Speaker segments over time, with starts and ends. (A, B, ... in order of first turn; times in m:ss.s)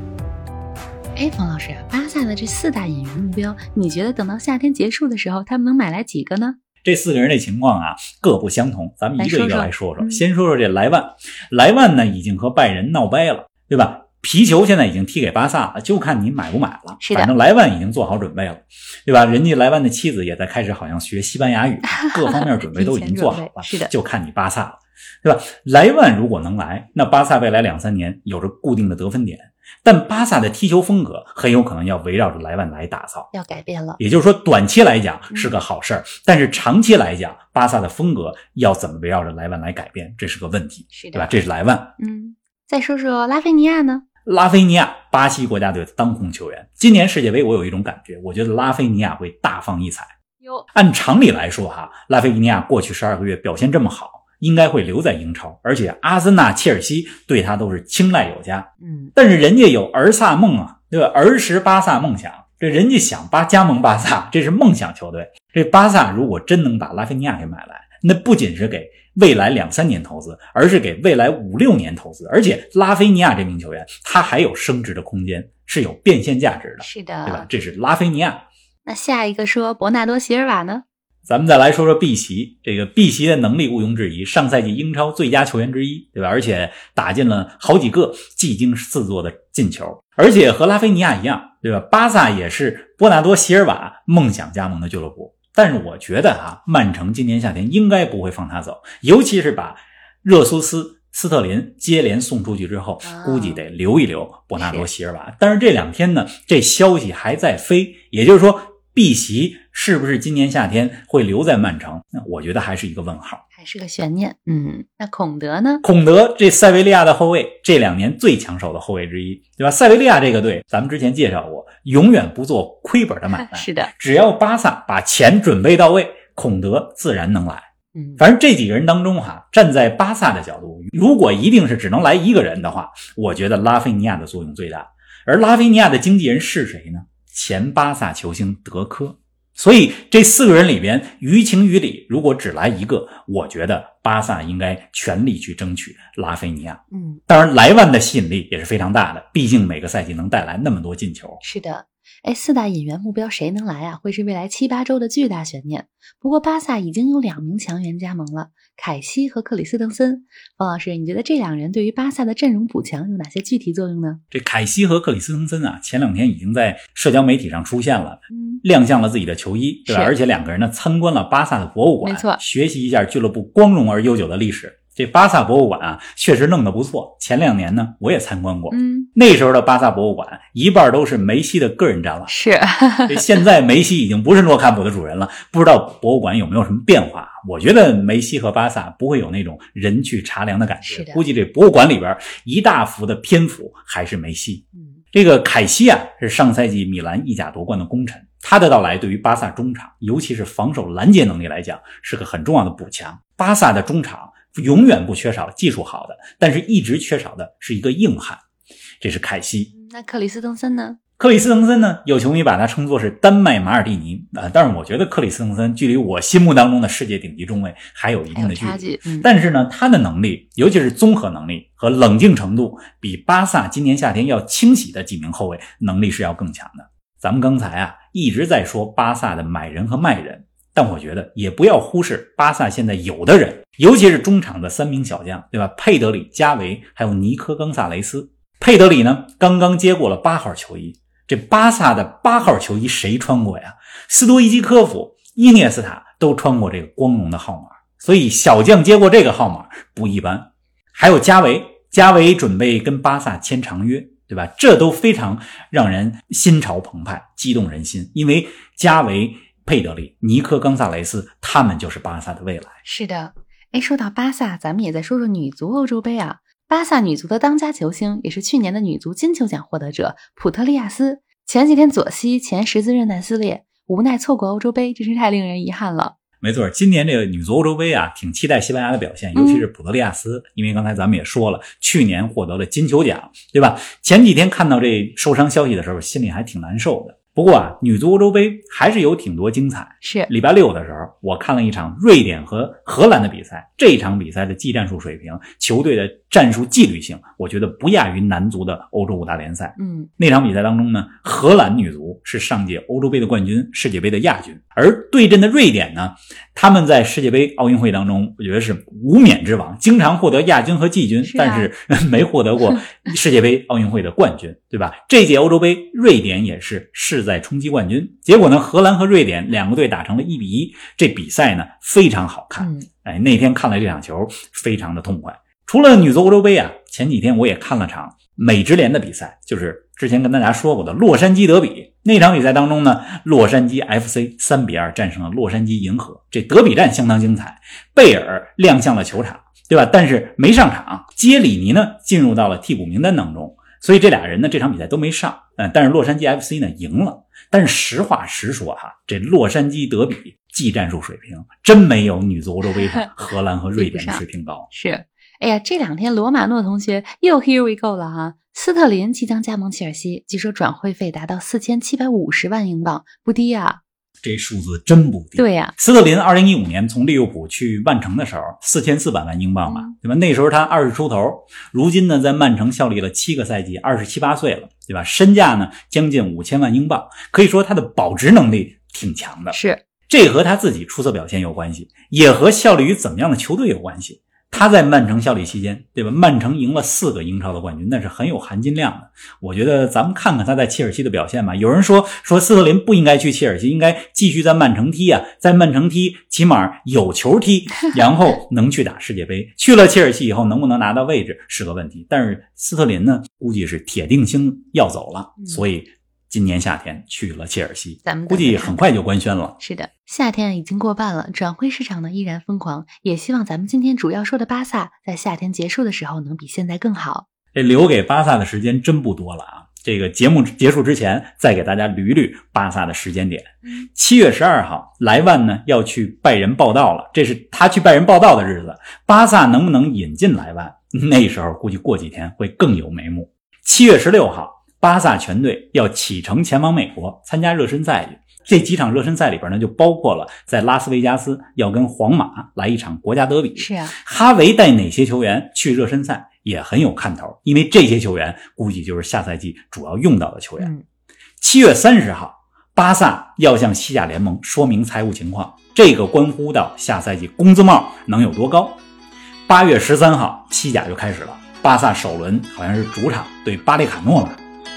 0:01.2-0:06.6 A
0:06.8-0:33.3 B
0:09.2-0:10.2 A
0:17.0-0:17.3 A
0:21.9-0:23.9 A
0:33.3-0:34.0 A
0:34.0-0:41.9 B
0:35.3-0:35.6 A
0:40.9-0:41.4 A
0:42.0-0:44.0 A
0:44.3-0:50.1 B
0:50.4-0:50.7 A
0:50.7-1:18.4 B
0:58.8-0:59.1 A
1:16.8-1:17.5 A
1:18.8-1:20.8 A
1:21.3-1:53.4 B
1:43.0-1:43.6 A
1:44.6-1:44.9 A
1:53.5-1:55.8 A
1:55.8-2:31.4 B
2:03.4-2:03.9 A
2:08.0-2:08.2 A
2:26.9-2:27.2 A
2:31.4-2:44.2 A
2:44.3-3:02.3 B
2:48.3-2:48.6 A
2:49.9-2:50.1 A
2:52.0-2:52.4 A
2:58.7-2:59.1 A
3:02.3-3:03.3 A
3:03.1-3:28.4 B
3:10.8-3:11.2 A
3:14.8-3:15.0 A
3:29.0-3:29.7 B
3:29.7-3:31.0 A
3:31.2-4:22.8 B
3:38.3-3:39.3 A
4:22.8-4:36.2 A
4:36.4-5:54.7 B
4:39.4-4:39.7 A
4:50.0-4:50.3 A
4:59.8-5:00.1 A
5:11.2-5:11.7 A
5:22.6-5:22.9 A
5:53.8-6:03.8 A
6:04.2-6:19.6 B
6:05.4-6:05.7 A
6:09.7-6:09.9 A
6:19.5-6:19.8 A
6:20.1-6:49.6 B
6:45.4-6:45.6 A
6:48.0-6:48.9 A
6:49.6-6:57.3 A
6:57.5-7:30.7 B
7:23.6-7:24.0 A
7:30.6-7:30.8 A
7:31.4-7:38.8 B
7:39.5-7:44.4 B